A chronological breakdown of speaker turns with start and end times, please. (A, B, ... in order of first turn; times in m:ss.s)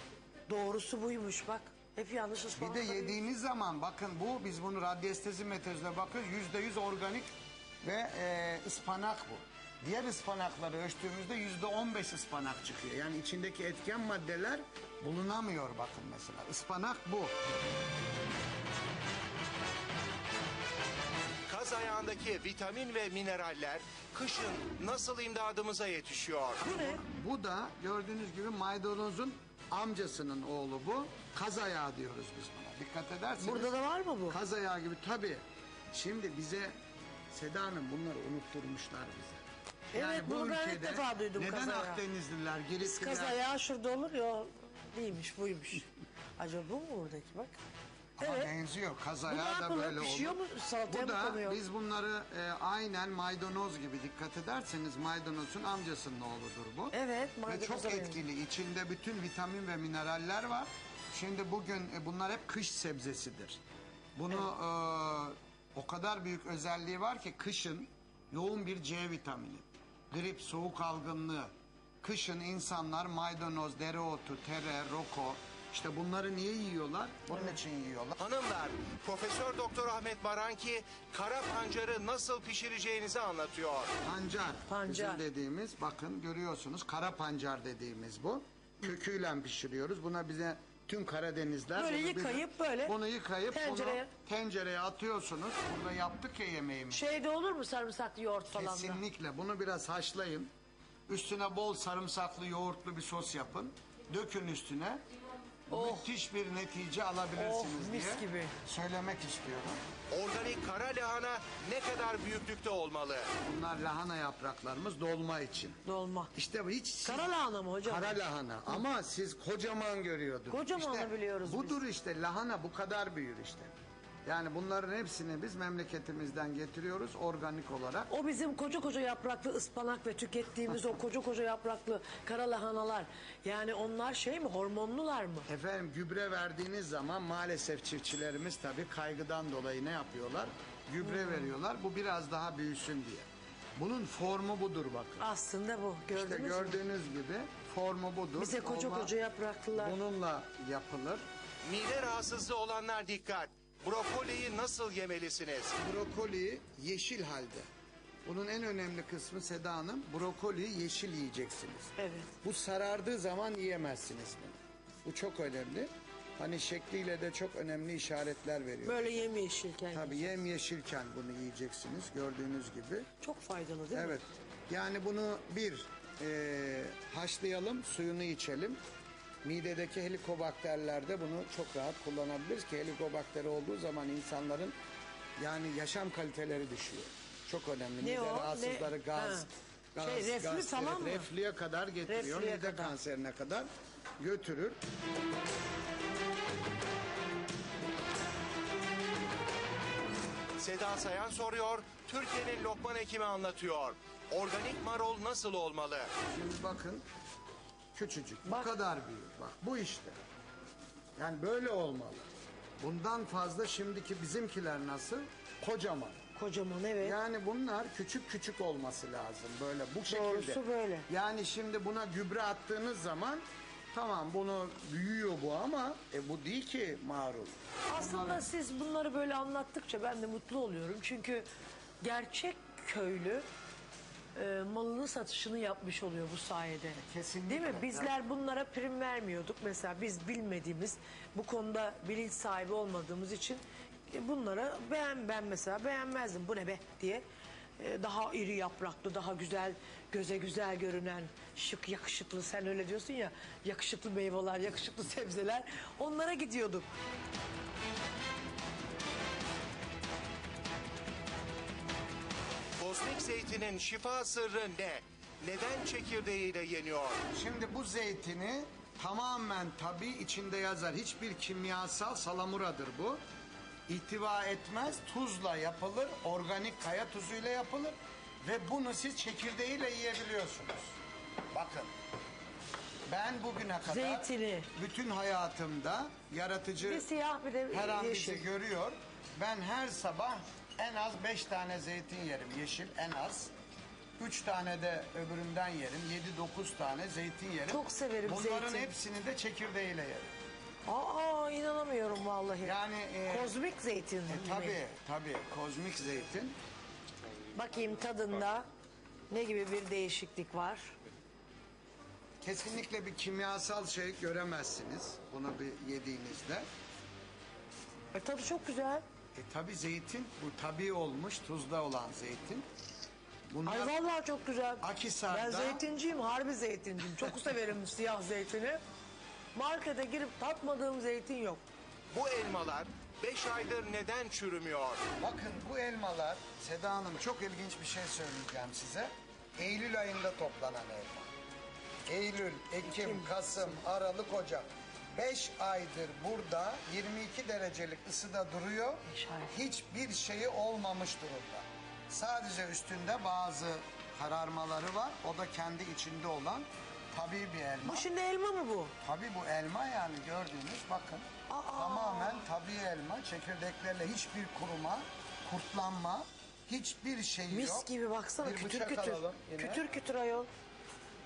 0:00.5-0:03.2 A
0:02.5-0:07.3 B
0:07.8-0:17.3 B
0:21.5-0:26.6 C
0:26.6-0:27.0 A
0:26.6-0:33.7 B
0:33.4-0:34.4 A
0:34.3-0:36.7 B
0:37.3-0:43.4 B
0:39.9-0:42.0 A
0:42.8-0:45.9 A
0:46.4-0:47.6 A
0:48.2-0:57.0 B
0:48.2-0:48.5 A
0:49.3-0:51.6 A
0:56.9-0:58.2 A
0:57.5-1:03.6 B
1:04.2-1:11.5 B
1:12.0-1:18.2 B
1:18.2-1:23.9 C
1:24.0-1:37.1 B
1:24.7-1:25.2 A
1:31.8-1:33.0 A
1:33.5-1:34.1 A
1:36.9-1:39.0 A
1:38.5-1:40.5 B
1:41.1-1:45.0 B
1:45.7-1:49.8 B
1:45.7-1:46.1 A
1:47.4-1:48.5 A
1:50.1-1:53.3 C
1:53.4-1:55.8 B
1:55.8-1:56.3 A
1:56.4-1:57.3 B
1:57.0-1:58.8 A
1:57.8-2:03.7 B
2:00.5-2:01.8 A
2:04.2-2:08.1 B
2:08.1-2:15.5 A
2:15.5-2:25.2 B
2:21.0-2:21.5 A
2:25.2-2:26.8 A
2:26.1-2:29.1 B
2:28.4-2:30.0 A
2:29.7-2:31.2 B
2:31.6-2:35.8 C
2:35.8-2:37.7 B
2:38.2-2:49.3 B
2:42.0-2:42.3 A
2:48.8-2:50.4 A
2:49.9-2:53.1 B
2:53.2-2:54.2 A
2:53.9-2:58.8 B
2:59.4-3:04.8 B
3:05.4-3:13.7 B
3:08.0-3:11.3 A
3:12.1-3:12.9 A
3:14.2-3:14.8 B
3:20.6-3:26.1 C
3:26.3-3:27.0 B
3:27.9-3:30.2 B
3:28.5-3:28.7 A
3:31.2-3:32.3 B
3:32.8-3:36.2 B
3:36.4-3:37.2 A
3:37.0-3:48.4 B
3:40.1-3:41.1 A
3:47.9-3:51.5 A
3:52.0-3:53.4 A
3:54.4-4:07.2 A
3:57.0-3:58.1 B
4:07.8-4:16.9 A
4:22.8-4:27.2 C
4:27.3-4:33.2 B
4:33.9-4:41.0 B
4:41.5-4:41.9 B
4:43.1-4:47.1 B
4:43.9-4:44.7 A
4:46.8-4:48.5 A
4:47.7-4:53.5 B
4:54.2-5:00.3 B
4:57.7-4:58.9 A
5:00.9-5:04.8 A
5:02.6-5:03.6 B
5:04.3-5:06.6 B
5:07.5-5:08.7 A
5:09.3-5:10.9 A
5:12.4-5:16.6 B
5:18.1-5:19.0 A
5:19.4-5:22.6 B
5:23.5-5:24.0 B
5:23.7-5:28.8 A
5:24.8-5:25.8 B
5:29.6-5:31.6 A
5:32.1-5:35.0 C
5:35.2-5:41.3 B
5:42.1-5:58.1 B
5:42.8-5:43.7 A
5:49.1-5:49.6 A
5:57.8-5:58.9 A
5:59.0-6:07.9 B
6:01.5-6:02.4 A
6:07.5-6:10.5 A
6:08.4-6:09.8 B